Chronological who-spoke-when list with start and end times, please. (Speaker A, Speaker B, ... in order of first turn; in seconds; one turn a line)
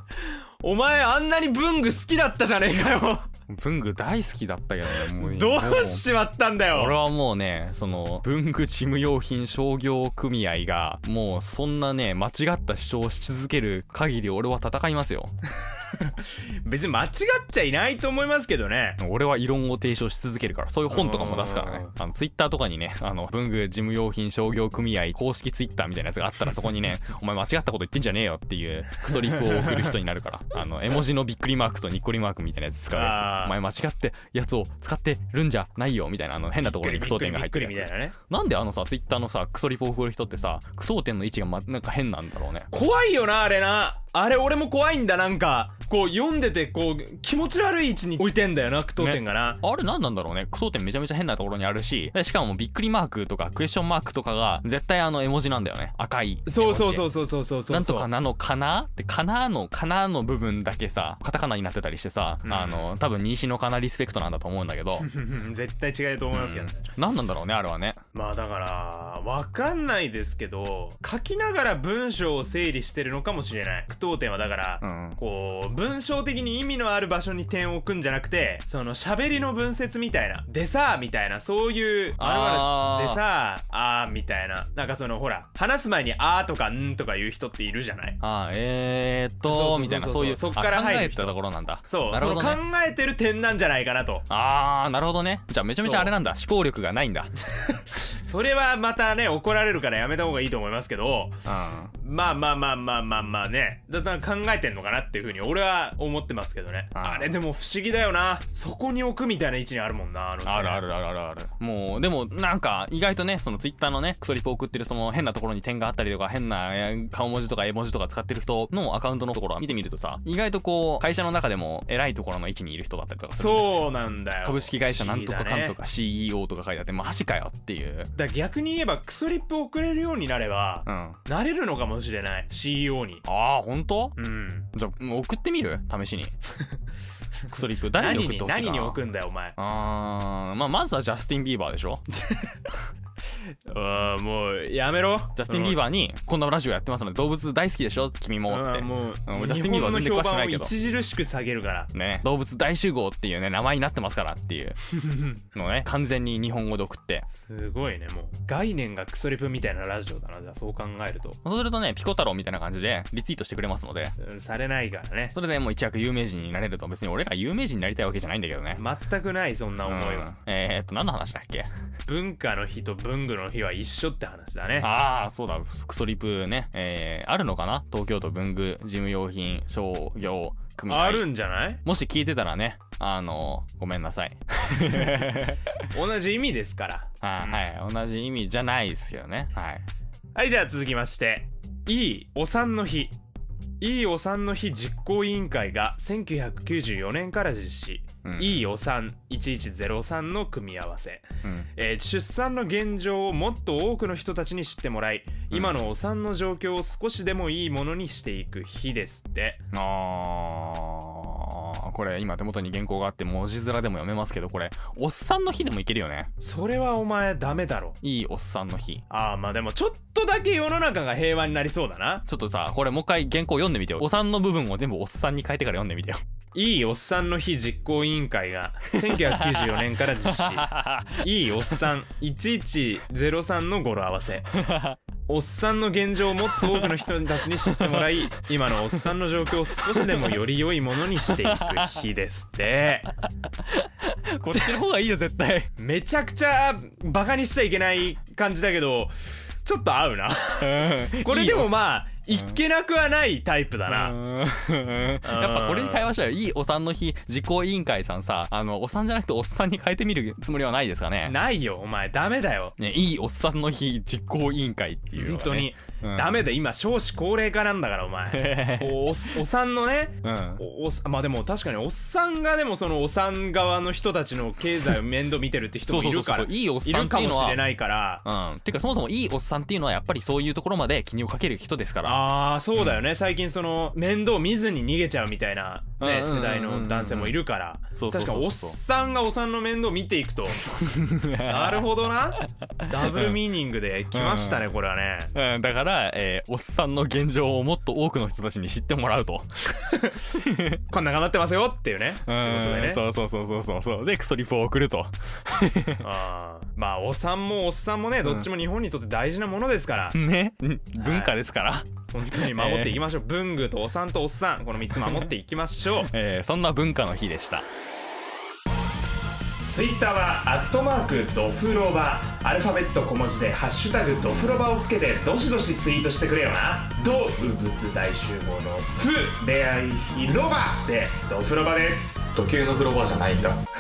Speaker A: 0.2-3.3
Speaker B: 3.5-6.1
Speaker A: 4.9-7.0
Speaker B: 6.7-15.3
Speaker A: 15.7-19.0
Speaker B: 19.0-42.7
Speaker A: 20.9-21.9
Speaker A: 29.2-29.9
Speaker A: 32.9-33.6
Speaker A: 36.6-38.1
Speaker A: 42.7-49.6
Speaker B: 49.0-57.1
Speaker A: 56.5-58.1
Speaker B: 57.7-65.1
Speaker A: 62.5-63.0
Speaker A: 65.0-66.8
Speaker B: 66.3-68.0
Speaker A: 68.1-88.2
Speaker B: 74.8-75.2
Speaker B: 82.2-83.2
Speaker B: 88.2-92.6
Speaker A: 89.5-94.2
Speaker B: 94.3-97.3
Speaker A: 95.8-96.2
Speaker A: 97.6-101.4
Speaker B: 101.5-101.9
Speaker A: 101.9-110.8
Speaker B: 107.0-107.3
Speaker B: 110.4-123.8
Speaker A: 123.4-125.8
Speaker B: 124.4-128.1
Speaker A: 128.2-133.2
Speaker B: 130.9-131.2
Speaker B: 133.2-134.2
Speaker A: 134.2-134.7
Speaker B: 134.7-136.3
Speaker B: 137.5-139.0
Speaker A: 137.9-139.6
Speaker B: 139.6-142.0
Speaker A: 143.7-145.8
Speaker B: 145.4-150.7
Speaker A: 148.5-151.9
Speaker B: 151.9-154.8
Speaker B: 155.3-157.3
Speaker A: 157.3-161.4
Speaker B: 161.4-164.2
Speaker A: 164.2-165.3
Speaker B: 165.3-168.8
Speaker A: 168.8-170.3
Speaker B: 169.8-171.7
Speaker A: 172.1-174.9
Speaker B: 174.8-181.3
Speaker A: 180.9-181.8
Speaker B: 181.8-185.8
Speaker A: 185.9-187.7
Speaker B: 187.2-189.9
Speaker A: 190.3-193.2
Speaker A: 193.8-209.6
Speaker B: 198.2-198.7
Speaker B: 201.4-201.7
Speaker B: 205.5-205.9
Speaker B: 209.7-216.3
Speaker A: 216.4-218.0
Speaker B: 218.0-219.0
Speaker A: 219.1-222.2
Speaker B: 222.3-226.2
Speaker A: 226.5-234.6
Speaker B: 229.0-231.8
Speaker B: 234.5-235.0
Speaker A: 235.3-243.1
Speaker B: 236.4-240.4
Speaker B: 241.2-242.1
Speaker B: 243.2-245.7
Speaker A: 245.8-254.2
Speaker B: 250.6-252.6
Speaker B: 253.9-261.4
Speaker A: 255.2-256.1
Speaker A: 261.2-262.8
Speaker B: 262.8-266.5
Speaker A: 265.1-278.2
Speaker B: 268.3-269.3
Speaker B: 270.2-270.6
Speaker B: 275.9-277.7
Speaker B: 278.2-283.0
Speaker A: 282.0-290.6
Speaker B: 286.0-287.4
Speaker B: 288.0-288.8
Speaker B: 290.5-293.4
Speaker A: 291.4-295.3
Speaker B: 294.1-294.7
Speaker B: 295.3-299.5
Speaker A: 299.9-300.2
Speaker B: 300.3-300.8
Speaker A: 300.9-303.0
Speaker B: 302.2-306.1
Speaker A: 306.0-310.2
Speaker B: 308.2-308.5
Speaker B: 310.1-313.0
Speaker A: 311.0-311.4
Speaker A: 312.1-316.1
Speaker B: 314.9-315.3
Speaker B: 316.0-317.7
Speaker A: 319.7-332.3
Speaker B: 332.4-333.6